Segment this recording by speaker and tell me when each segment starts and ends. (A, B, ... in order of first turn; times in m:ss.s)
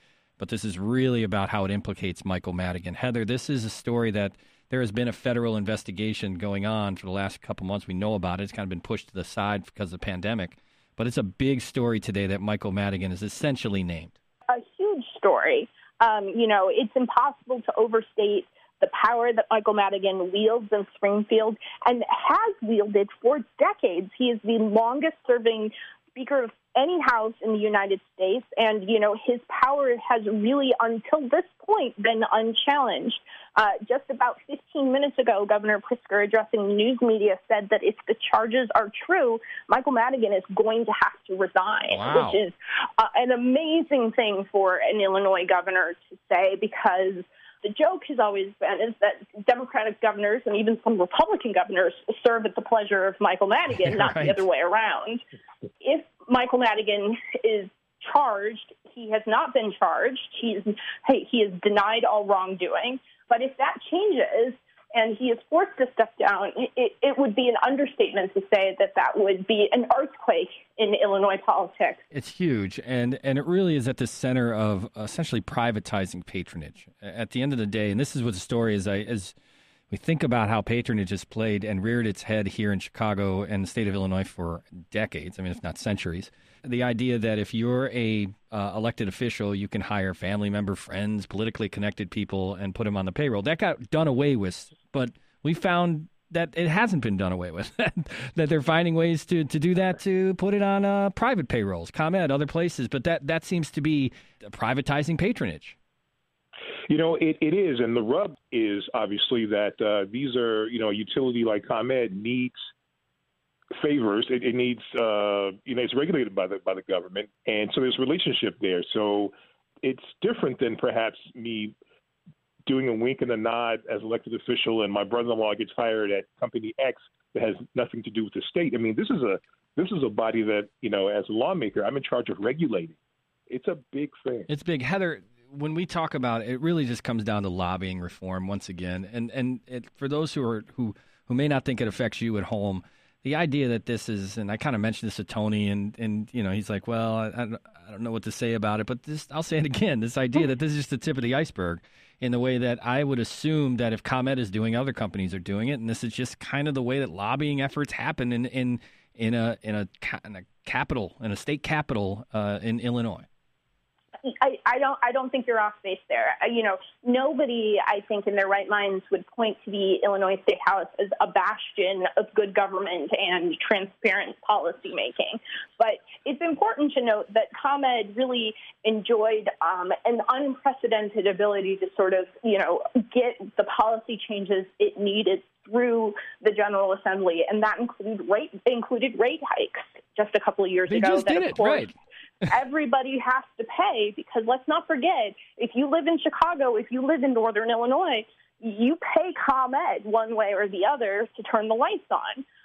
0:00.4-0:14.1 A
0:14.5-0:55.2 B
0:41.9-0:42.4 A
0:53.8-0:54.4 A
0:55.8-1:12.0 B
1:12.1-1:19.3 A
1:19.9-1:45.8 A
1:46.9-1:52.6 C
1:53.8-2:01.7 C
2:02.6-2:13.0 C
2:13.5-2:14.5 C
2:14.5-2:43.2 A
2:44.2-3:11.9 B
3:10.9-3:11.9 A
3:12.5-3:22.4 B